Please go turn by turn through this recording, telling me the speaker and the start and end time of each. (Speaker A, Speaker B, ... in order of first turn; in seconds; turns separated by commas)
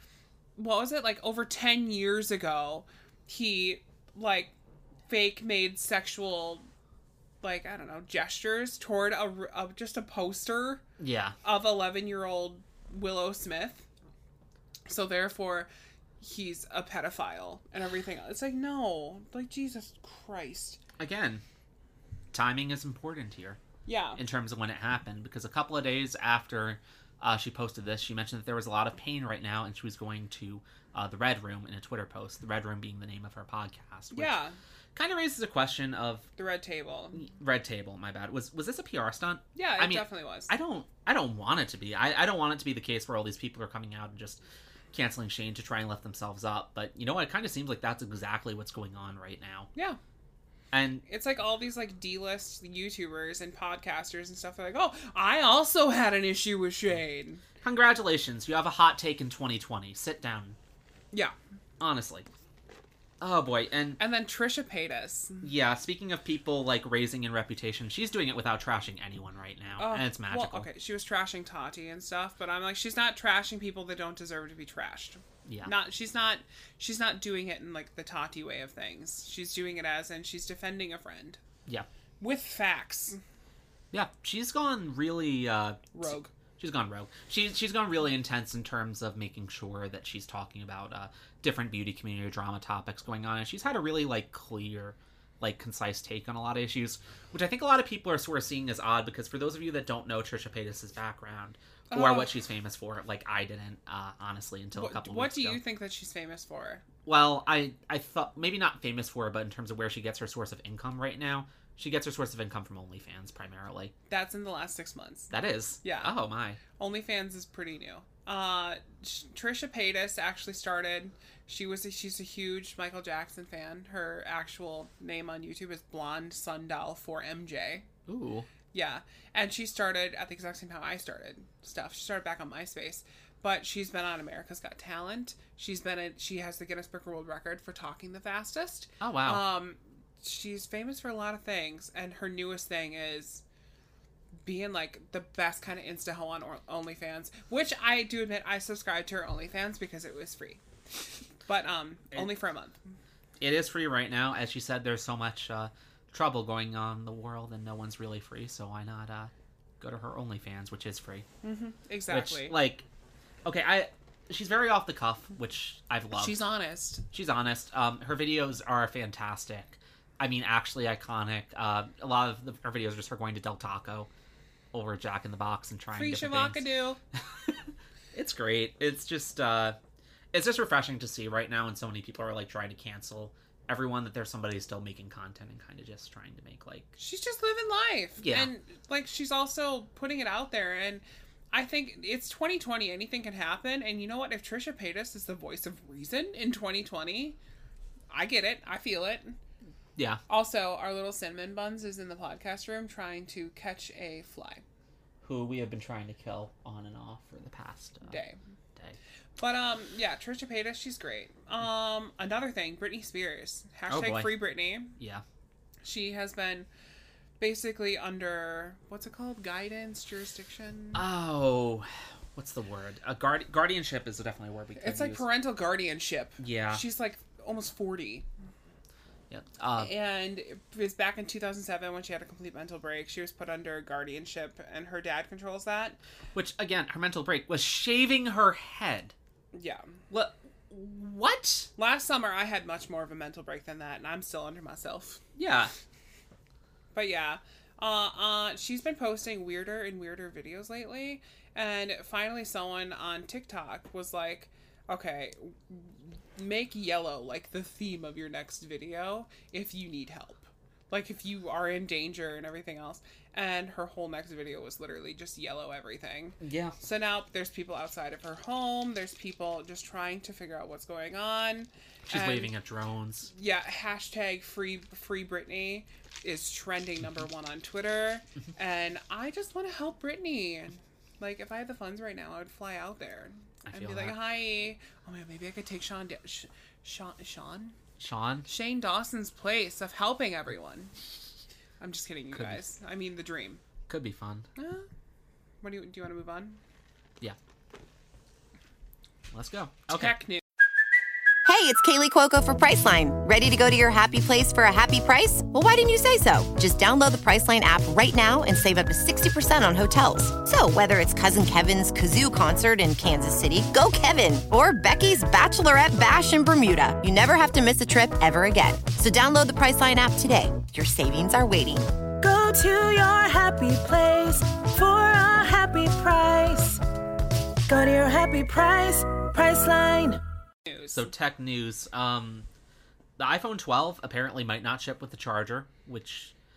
Speaker A: 0.6-4.5, Speaker A: 5.1-6.7, Speaker A: 7.4-10.8, Speaker B: 11.0-11.3, Speaker A: 11.4-13.9, Speaker A: 14.8-15.7, Speaker A: 16.2-20.8, Speaker B: 21.0-21.4, Speaker B: 22.3-23.6, Speaker A: 23.9-24.2, Speaker B: 24.2-34.4, Speaker A: 34.1-34.6, Speaker B: 34.9-36.3, Speaker A: 36.4-37.2, Speaker B: 37.1-44.4, Speaker A: 39.5-40.5, Speaker B: 44.9-49.7, Speaker A: 49.7-50.0, Speaker B: 50.7-51.0, Speaker A: 51.1-57.4, Speaker B: 57.6-60.6, Speaker B: 61.8-62.3, Speaker B: 63.2-64.0, Speaker A: 64.0-65.5, Speaker B: 65.4-70.7, Speaker A: 69.8-81.4, Speaker B: 75.5-75.7, Speaker A: 82.2-83.2, Speaker B: 83.9-105.6, Speaker A: 85.9-86.3, Speaker A: 101.9-102.3, Speaker A: 104.7-106.8, Speaker B: 107.0-113.9, Speaker A: 114.1-115.3, Speaker B: 115.3-116.6, Speaker A: 115.8-116.1, Speaker A: 116.7-127.9, Speaker B: 128.1-128.5, Speaker A: 128.7-143.4, Speaker B: 139.0-139.4, Speaker A: 144.4-150.6, Speaker A: 151.4-152.8, Speaker B: 153.4-161.2, Speaker A: 161.4-162.5, Speaker B: 162.1-162.8, Speaker B: 163.4-166.4, Speaker A: 166.1-167.1, Speaker B: 167.1-174.1, Speaker B: 174.7-176.6, Speaker A: 175.9-177.0, Speaker B: 178.1-179.8, Speaker B: 180.3-186.9, Speaker A: 187.0-197.4, Speaker B: 188.2-188.5, Speaker A: 198.1-199.4, Speaker B: 199.9-200.2, Speaker A: 200.3-204.6, Speaker B: 205.2-208.2, Speaker A: 208.0-208.4, Speaker A: 209.4-215.0, Speaker B: 213.9-214.3, Speaker B: 215.0-215.2, Speaker A: 215.8-216.7, Speaker A: 217.4-221.0, Speaker B: 220.9-225.2, Speaker A: 224.8-228.2, Speaker B: 226.4-226.8, Speaker B: 229.3-229.9, Speaker A: 229.8-236.0, Speaker B: 236.3-239.1, Speaker A: 239.5-239.9, Speaker B: 240.1-241.7, Speaker A: 241.8-245.2, Speaker B: 245.3-245.7, Speaker A: 246.9-272.5, Speaker B: 266.4-266.8, Speaker B: 272.1-273.3, Speaker A: 273.3-287.8, Speaker B: 283.6-284.2, Speaker B: 288.0-288.5, Speaker A: 288.4-291.0, Speaker A: 291.8-293.6, Speaker B: 292.3-292.6, Speaker B: 293.9-294.5, Speaker A: 294.6-294.9, Speaker A: 295.6-296.6, Speaker B: 299.3-300.2, Speaker A: 299.9-300.4, Speaker C: 301.4-321.9, Speaker D: 322.2-326.8, Speaker D: 327.7-330.2, Speaker A: 330.6-331.1, Speaker B: 330.9-332.5, Speaker B: 333.2-336.3